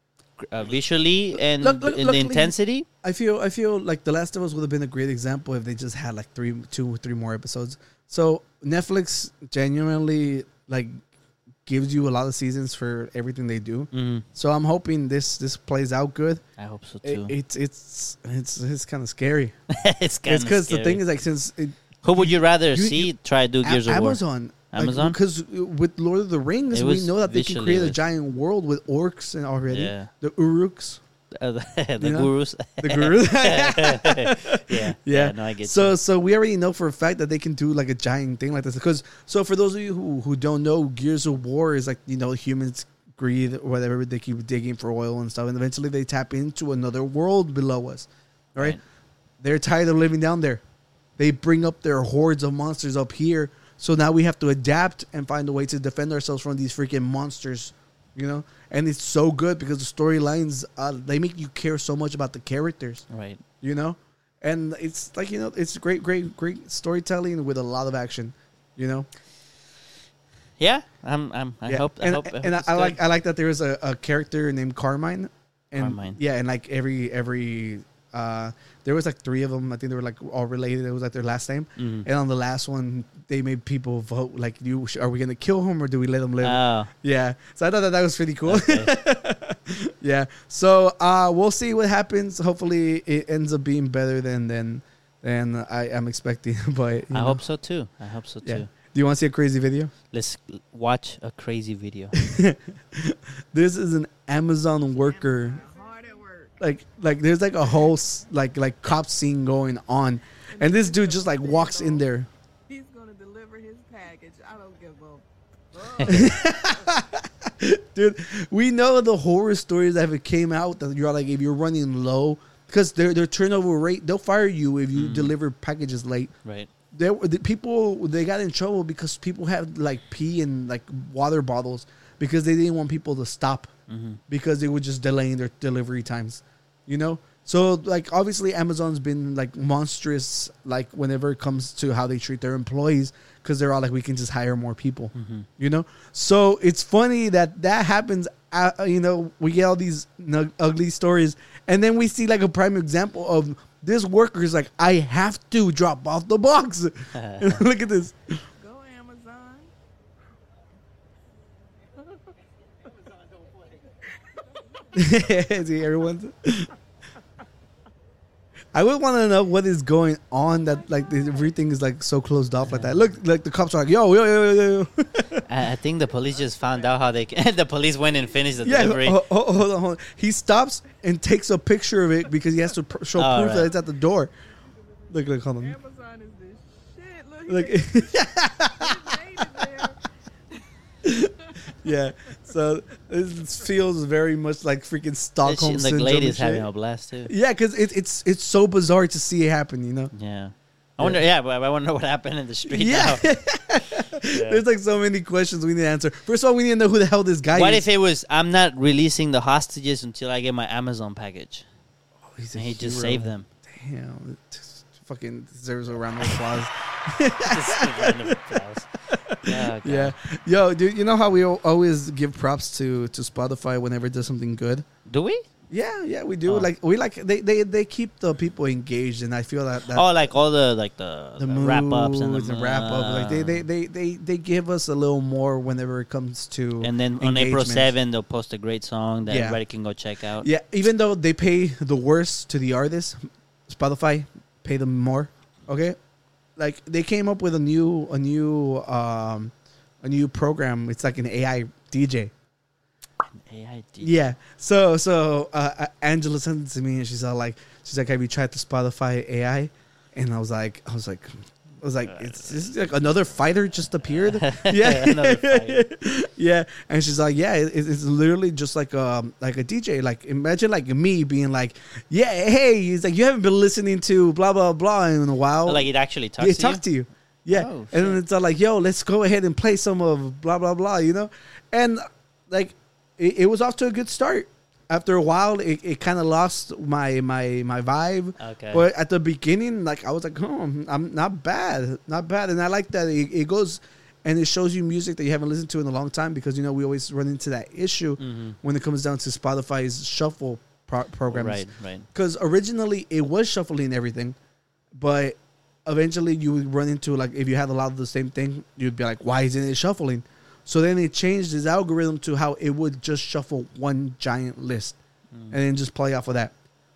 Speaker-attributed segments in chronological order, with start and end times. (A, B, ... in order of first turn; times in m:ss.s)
0:00.4-0:02.8 A
0:01.4-0:11.0 B
0:11.6-0:16.4 B
0:13.9-0:14.2 A
0:16.6-0:17.3 A
0:17.0-0:19.5 B
0:19.7-0:21.0 A
0:20.2-0:31.0 B
0:22.0-0:24.2 A
0:24.7-0:25.2 A
0:26.7-0:28.0 A
0:29.7-0:30.1 A
0:31.3-0:36.0 A
0:32.0-0:48.8 B
0:49.4-0:50.6 B
0:51.2-1:03.0 B
1:03.1-1:03.4 A
1:03.6-1:09.1 B
1:10.6-1:13.0 A
1:11.6-1:37.4 B
1:15.8-1:16.2 A
1:21.8-1:22.1 A
1:26.4-1:26.9 A
1:28.4-1:28.9 A
1:37.1-1:38.7 A
1:38.4-1:39.9 B
1:40.1-1:42.2 A
1:42.2-1:45.6 B
1:45.0-1:46.5 C
1:46.6-1:52.3 B
1:50.5-1:52.0 C
1:52.7-1:56.8 C
1:56.0-1:56.3 A
1:56.1-2:06.3 B
2:04.9-2:05.3 A
2:06.9-2:13.7 B
2:13.9-2:14.2 A
2:14.3-2:38.4 B
2:25.1-2:25.5 A
2:37.1-2:37.6 A
2:38.6-2:39.7 C
2:44.8-2:45.2 C
2:44.9-2:46.7 B
2:48.7-2:55.4 B
2:50.8-2:51.4 C
2:52.6-2:53.0 A
2:55.4-2:59.2 A
2:56.2-2:57.1 C
2:58.6-3:04.3 B
3:03.2-3:03.7 A
3:05.1-3:10.0 C
3:05.1-3:05.8 B
3:07.5-3:09.7 B
3:11.0-3:16.6 B
3:11.2-3:11.9 C
3:15.4-3:17.3 A
3:17.2-3:20.1 B
3:20.1-3:23.2 A
3:22.7-3:27.8 B
3:24.3-3:24.6 A
3:27.5-3:31.6 A
3:32.2-3:44.8 B
3:32.5-3:33.5 A
3:37.4-3:38.9 A
3:39.4-3:40.1 A
3:45.1-3:45.4 A
3:45.7-3:50.1 B
3:46.4-3:46.7 A
3:49.9-3:53.6 A
3:51.4-3:57.9 B
3:56.8-4:00.5 A
3:59.3-3:59.6 B
4:00.4-4:06.0 B
4:06.6-4:12.3 B
4:13.4-4:14.2 A
4:14.0-5:04.4 B
4:22.0-4:22.7 A
4:24.3-4:25.8 A
4:35.6-4:36.8 A
4:37.5-4:38.2 A
4:48.4-4:48.8 A
4:58.2-4:58.6 A
5:01.3-5:02.0 A
5:04.9-5:15.0 B
5:15.5-5:16.5 B